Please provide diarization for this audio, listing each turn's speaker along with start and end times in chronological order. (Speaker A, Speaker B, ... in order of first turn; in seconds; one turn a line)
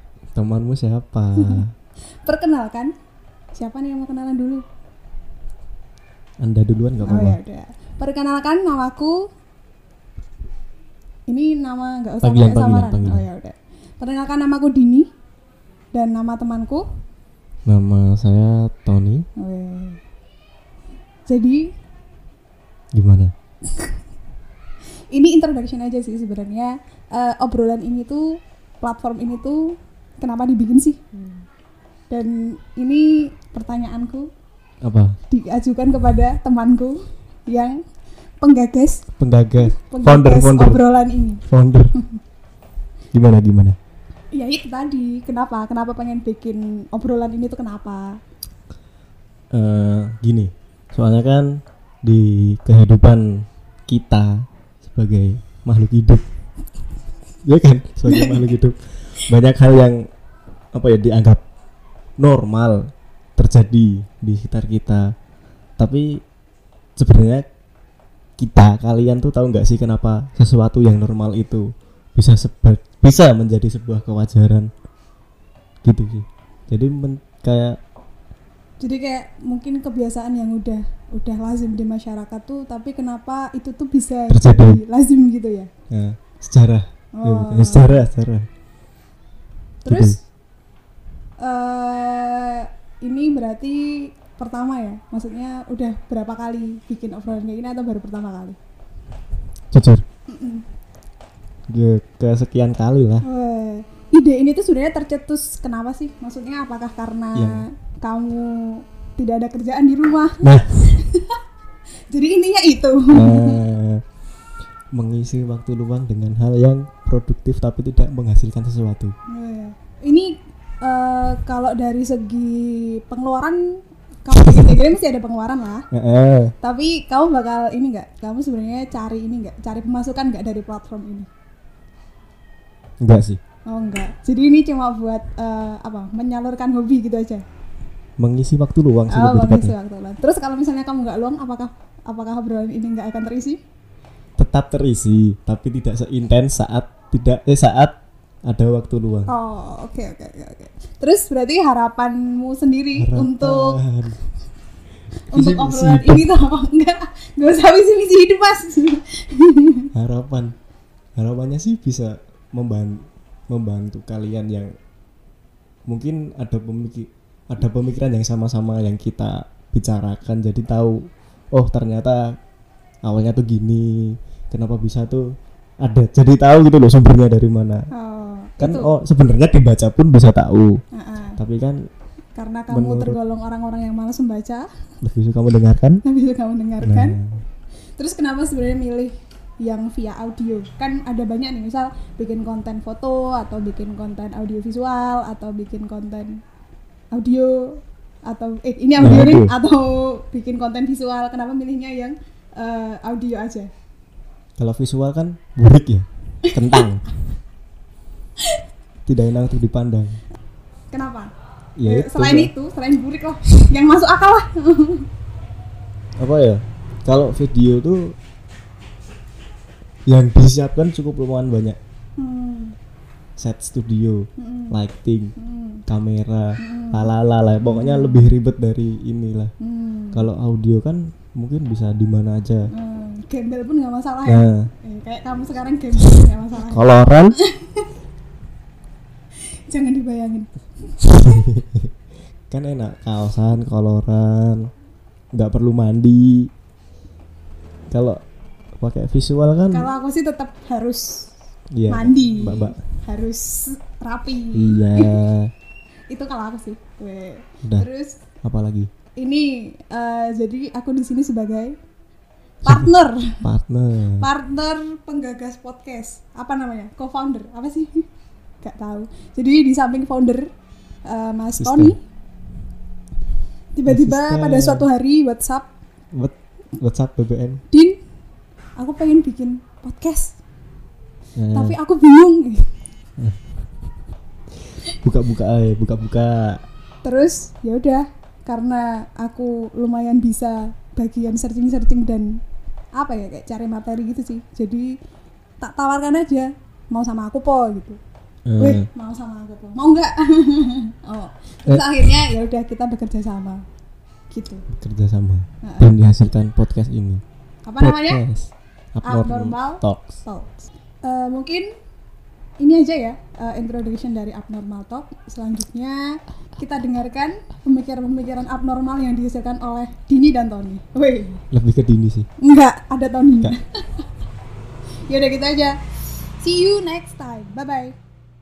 Speaker A: 0.3-1.7
Speaker B: 2.2-2.9
Speaker B: 3.5-4.6
Speaker A: 6.4-7.4
Speaker B: 7.0-9.2
Speaker B: 11.3-15.1
Speaker A: 12.2-13.3
Speaker B: 15.9-16.8
Speaker A: 17.7-19.3
Speaker B: 19.4-20.0
Speaker B: 21.3-21.7
Speaker A: 22.9-23.3
Speaker B: 23.7-24.0
Speaker B: 25.1-31.1
Speaker B: 32.1-34.3
Speaker A: 34.8-35.2
Speaker B: 35.3-37.8
Speaker B: 38.4-39.0
Speaker A: 39.2-40.8
Speaker B: 39.6-41.4
Speaker A: 41.5-42.0
Speaker A: 43.1-43.8
Speaker B: 44.3-48.2
Speaker A: 49.5-56.2
Speaker A: 57.5-60.1
Speaker B: 58.1-58.4
Speaker A: 60.7-61.4
Speaker A: 62.2-65.1
Speaker A: 65.8-66.2
Speaker A: 67.0-67.5
Speaker A: 68.4-74.7
Speaker A: 75.8-77.8
Speaker B: 78.8-85.7
Speaker A: 84.3-84.8
Speaker A: 85.9-88.5
Speaker B: 87.2-88.0
Speaker B: 89.8-90.2
Speaker A: 89.9-90.2
Speaker B: 91.4-98.6
Speaker A: 99.7-100.0
Speaker B: 100.3-100.7
Speaker A: 101.7-103.2
Speaker B: 103.2-111.4
Speaker A: 107.3-107.7
Speaker A: 110.4-110.9
Speaker B: 112.1-113.6
Speaker A: 113.1-114.0
Speaker A: 115.0-119.2
Speaker B: 119.3-125.8
Speaker A: 125.9-126.5
Speaker B: 126.6-131.3
Speaker A: 133.0-133.4
Speaker B: 133.7-137.4
Speaker A: 138.2-139.8
Speaker B: 139.1-143.6
Speaker A: 144.4-147.9
Speaker A: 148.5-149.3
Speaker B: 149.3-153.8
Speaker A: 153.0-154.2
Speaker A: 155.3-156.3
Speaker B: 155.3-159.9
Speaker A: 159.9-160.5
Speaker A: 161.2-164.7
Speaker A: 165.9-172.3
Speaker A: 173.1-175.3
Speaker A: 175.8-177.9
Speaker B: 177.9-178.9
Speaker A: 178.6-180.8
Speaker B: 180.9-181.4
Speaker A: 181.4-181.8
Speaker B: 182.4-184.7
Speaker A: 182.7-183.2
Speaker A: 185.0-186.0
Speaker B: 186.0-187.2
Speaker A: 186.8-187.4
Speaker B: 188.0-196.4
Speaker B: 197.1-203.7
Speaker A: 199.0-199.5
Speaker A: 204.6-207.1
Speaker A: 209.1-210.2
Speaker B: 210.9-211.3
Speaker A: 211.8-212.5
Speaker B: 211.8-215.1
Speaker A: 216.2-218.2
Speaker A: 220.1-221.8
Speaker B: 222.2-222.8
Speaker A: 223.4-225.3
Speaker B: 224.4-224.8
Speaker B: 225.4-225.8
Speaker A: 225.9-229.5
Speaker B: 226.6-227.1
Speaker B: 227.7-228.3
Speaker B: 229.6-230.3
Speaker A: 230.1-232.7
Speaker B: 232.7-237.9
Speaker A: 234.3-234.7
Speaker A: 236.6-237.4
Speaker B: 239.7-241.3
Speaker A: 241.0-241.9
Speaker A: 242.5-244.7
Speaker A: 245.3-246.5
Speaker A: 247.9-248.2
Speaker A: 248.8-249.9
Speaker B: 249.7-251.3
Speaker A: 251.8-252.8
Speaker B: 251.9-255.2
Speaker A: 254.5-255.5
Speaker B: 256.1-258.2
Speaker A: 258.4-258.9
Speaker B: 259.2-261.8
Speaker B: 262.6-263.4
Speaker A: 262.6-262.9
Speaker A: 263.4-264.3
Speaker B: 264.2-268.1
Speaker B: 268.6-270.5
Speaker B: 271.1-272.0
Speaker A: 271.6-271.9
Speaker B: 273.8-275.7
Speaker A: 273.9-274.9
Speaker A: 276.1-277.6
Speaker B: 277.7-278.0
Speaker B: 278.8-280.4
Speaker A: 281.4-281.8
Speaker B: 281.5-282.7
Speaker A: 284.9-286.6
Speaker B: 287.0-292.4
Speaker B: 293.0-295.0
Speaker B: 295.6-298.0
Speaker A: 298.5-298.9
Speaker B: 298.6-303.6
Speaker A: 301.7-301.9
Speaker B: 304.3-304.6
Speaker A: 304.7-307.2
Speaker B: 305.6-305.9
Speaker B: 307.7-308.2
Speaker A: 307.8-310.2
Speaker B: 309.0-311.7
Speaker B: 312.6-321.4
Speaker A: 321.5-322.3
Speaker B: 322.4-324.1
Speaker B: 325.1-325.8
Speaker B: 326.4-328.0